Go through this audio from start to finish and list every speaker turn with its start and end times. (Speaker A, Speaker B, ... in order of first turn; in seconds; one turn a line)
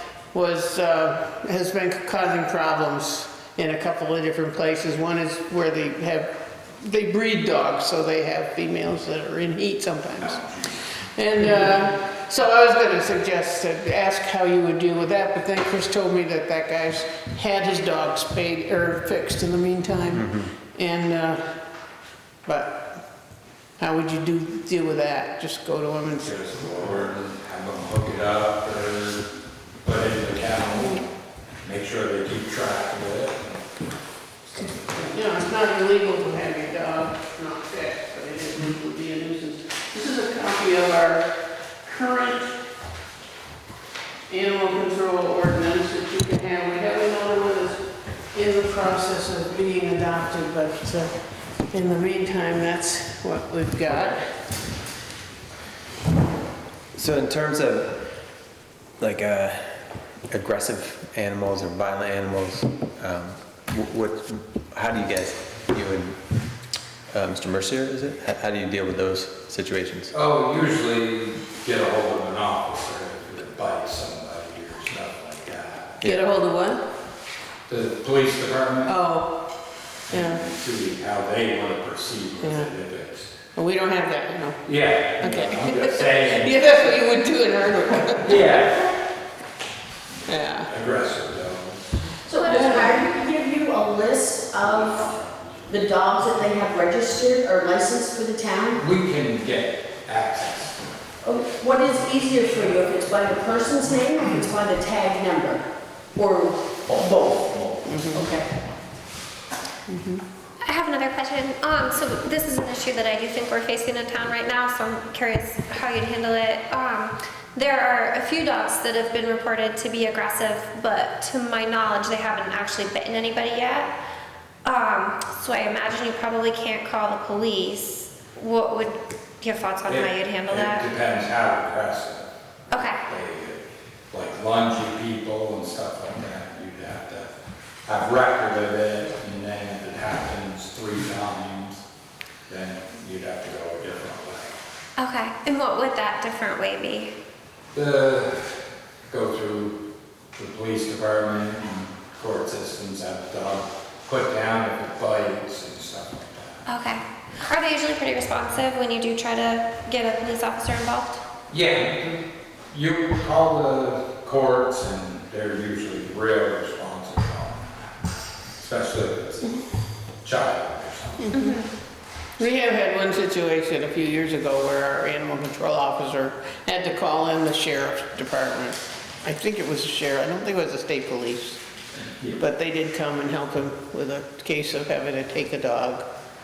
Speaker A: 0.3-10.4
Speaker B: 10.2-10.6
Speaker A: 11.0-21.4
Speaker C: 20.1-20.5
Speaker A: 22.5-23.0
Speaker A: 23.8-26.4
Speaker B: 26.2-29.2
Speaker B: 29.8-31.1
Speaker B: 31.6-33.7
Speaker B: 34.5-35.0
Speaker A: 34.9-41.3
Speaker A: 41.8-42.5
Speaker A: 44.3-51.1
Speaker A: 51.7-54.3
Speaker C: 56.9-58.0
Speaker C: 59.0-59.7
Speaker C: 60.3-66.2
Speaker C: 67.1-70.1
Speaker B: 70.1-76.0
Speaker A: 76.0-76.8
Speaker B: 77.7-78.9
Speaker A: 78.8-79.4
Speaker B: 80.1-83.3
Speaker A: 80.1-80.4
Speaker A: 82.4-82.7
Speaker A: 83.5-84.7
Speaker B: 84.6-86.7
Speaker A: 85.2-88.5
Speaker B: 88.1-88.9
Speaker A: 90.2-90.7
Speaker B: 90.6-91.9
Speaker D: 92.2-95.1
Speaker E: 92.4-92.9
Speaker A: 92.5-92.9
Speaker D: 95.7-98.8
Speaker B: 98.8-101.0
Speaker D: 101.2-105.6
Speaker D: 106.1-108.5
Speaker A: 107.9-108.3
Speaker A: 109.9-110.2
Speaker E: 110.7-123.9
Speaker E: 124.6-130.9
Speaker B: 129.8-132.3
Speaker E: 132.7-133.0
Speaker B: 133.1-137.3
Speaker B: 137.8-141.8
Speaker B: 142.5-144.6
Speaker E: 145.0-147.1
Speaker B: 147.7-148.3
Speaker B: 149.1-149.8
Speaker B: 150.3-156.6
Speaker E: 156.7-161.2
Speaker B: 161.5-168.0
Speaker B: 168.6-169.6
Speaker B: 170.2-171.3
Speaker A: 171.2-171.6
Speaker E: 171.3-171.7
Speaker A: 172.4-181.6
Speaker A: 182.4-186.0